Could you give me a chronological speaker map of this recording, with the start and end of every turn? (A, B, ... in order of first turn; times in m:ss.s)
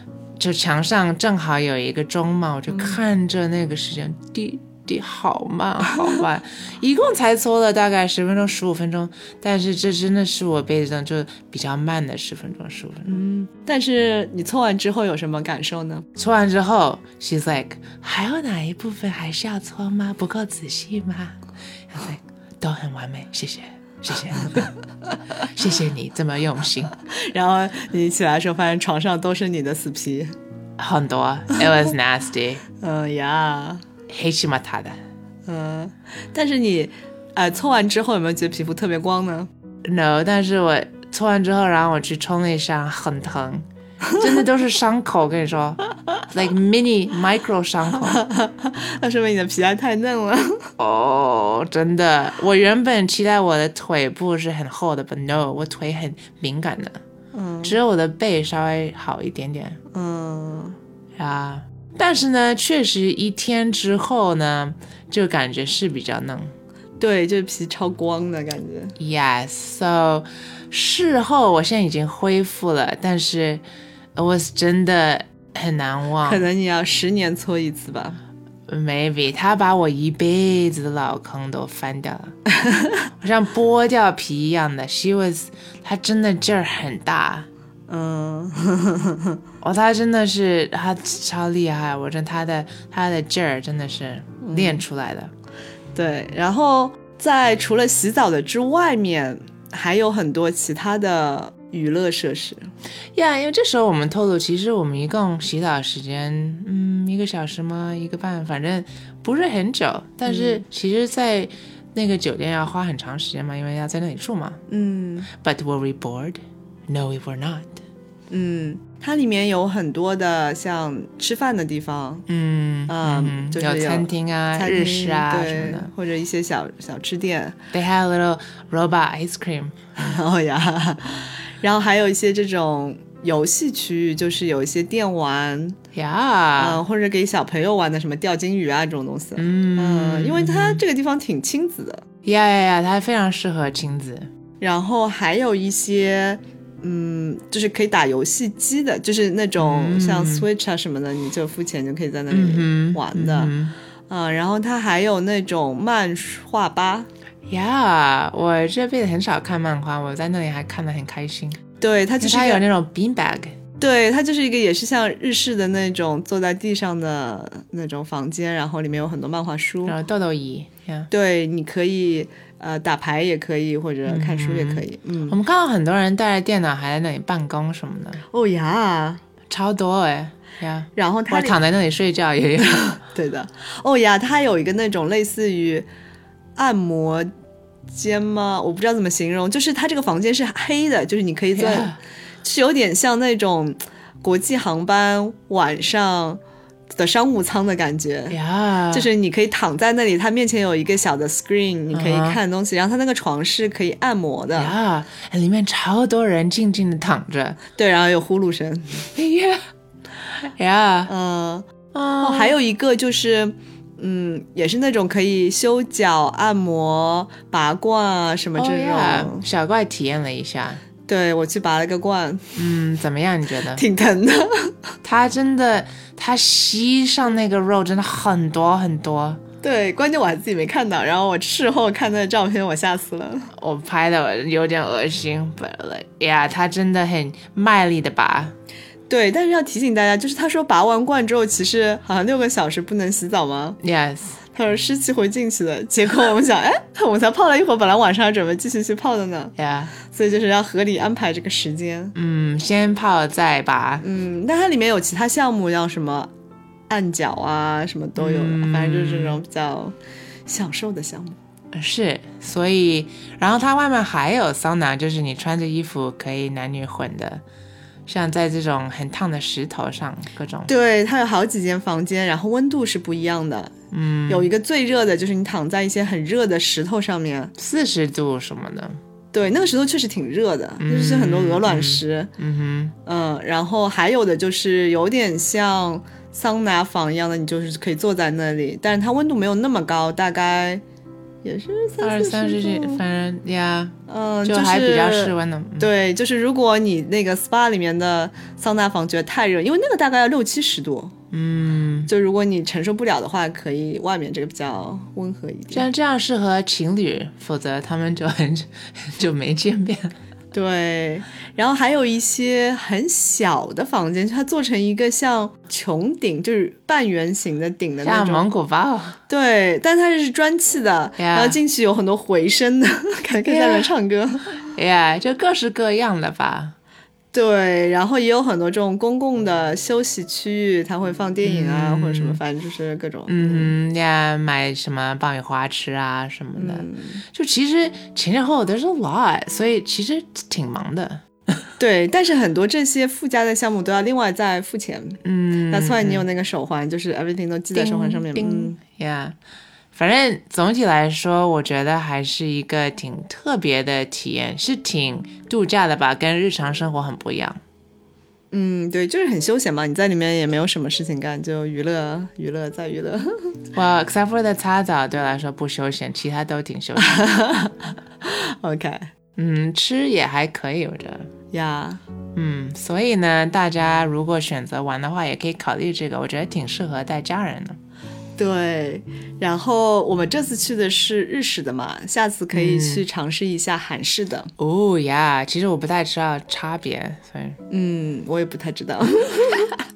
0:00.4-0:13.2 A
0:13.1-0:16.1 B
0:16.2-0:21.4 A
0:21.9-0:24.7 A
0:25.4-0:27.0 A
0:27.1-0:30.3 B
0:30.8-0:32.6 A
0:32.8-0:33.8 B
0:34.1-0:35.0 A
0:35.5-0:39.5 B
0:39.8-0:43.7 A
0:44.2-0:48.2 A
0:48.0-0:50.7 B
0:50.8-0:57.0 A
0:57.3-0:57.8 B
0:57.6-0:59.8 A
0:59.9-1:00.8 B
1:01.2-1:06.5 A
1:07.0-1:09.0 B
1:09.0-1:13.6 A
1:14.2-1:16.4 A
1:16.2-1:18.2 B
1:18.7-1:22.4 A
1:22.6-1:23.0 B
1:23.2-1:27.5 A
1:27.9-1:29.4 B
1:29.6-1:35.3 A
1:34.4-1:34.8 B
1:36.0-1:42.7 B
1:43.2-1:54.6 A
1:50.3-1:50.6 B
1:54.7-1:55.3 B
1:55.3-1:57.8 A
1:58.3-2:02.3 B
2:02.3-2:05.9 A
2:02.9-2:07.6 B
2:07.7-2:09.9 A
2:10.0-2:15.8 B
2:15.9-2:16.8 A
2:16.6-2:22.1 B
2:19.4-2:20.8 A
2:22.2-2:24.3 A
2:24.6-2:33.6 B
2:29.6-2:30.5 A
2:32.3-2:33.8 A
2:34.1-2:37.1 B
2:37.5-2:41.6 A
2:41.8-2:42.6 B
2:42.2-2:43.6 A
2:43.8-2:50.0 B
2:49.9-2:51.1 A
2:51.1-2:55.4 B
2:54.1-2:58.2 A
2:58.3-2:59.2 B
2:59.5-3:03.0 A
3:01.0-3:01.6 B
3:03.0-3:05.9 B
3:06.6-3:07.3 B
3:07.9-3:16.4 B
3:11.6-3:12.0 A
3:16.9-3:18.4 B
3:18.3-3:19.1 A
3:18.9-3:24.8 B
3:21.9-3:22.4 A
3:24.6-3:27.6 A
3:27.8-3:29.1 B
3:29.2-3:29.6 A
3:30.4-3:31.1 A
3:31.1-3:39.4 B
3:31.9-3:32.6 A
3:38.6-3:40.8 A
3:41.1-3:42.5 B
3:42.6-3:43.8 A
3:43.7-3:44.8 B
3:45.0-3:49.4 A
3:49.6-3:53.5 B
3:53.6-3:58.5 A
3:59.1-4:03.8 B
4:03.8-4:04.4 A
4:04.5-4:12.2 B
4:09.6-4:09.9 A
4:12.2-4:14.0 A
4:14.0-4:16.3 B
4:16.9-4:19.9 B
4:18.2-4:19.4 A
4:20.5-4:21.4 B
4:21.7-4:27.4 A
4:28.1-4:30.7 A
4:30.7-4:33.7 B
4:33.9-4:34.5 A
4:34.3-4:37.5 B
4:37.6-4:39.0 A
4:39.3-4:42.3 B
4:40.8-4:43.0 A
4:43.0-4:50.8 B
4:51.4-4:53.0 B
4:52.0-4:55.9 A
4:54.1-5:01.1 B
5:01.3-5:02.1 A
5:02.1-5:05.9 B
5:05.7-5:10.2 A
5:10.5-5:18.4 B
5:18.0-5:19.2 A
5:19.3-5:24.5 B
5:21.2-5:21.6 A
5:23.5-5:23.9 A
5:24.7-5:26.8 A
5:27.3-5:33.7 B
5:31.4-5:32.4 A
5:33.3-5:41.2 A
5:36.6-5:37.2 B
5:41.8-5:48.8 B
5:45.2-5:46.3 A
5:47.8-5:49.4 A
5:49.9-5:57.6 A
5:58.5-6:03.5 B
6:03.7-6:07.2 A
6:07.0-6:09.1 B
6:09.4-6:11.3 A
6:11.5-6:12.0 B
6:12.4-6:17.8 A
6:18.4-6:24.5 B
6:22.5-6:23.0 A
6:24.6-6:27.6 A
6:27.7-6:29.7 B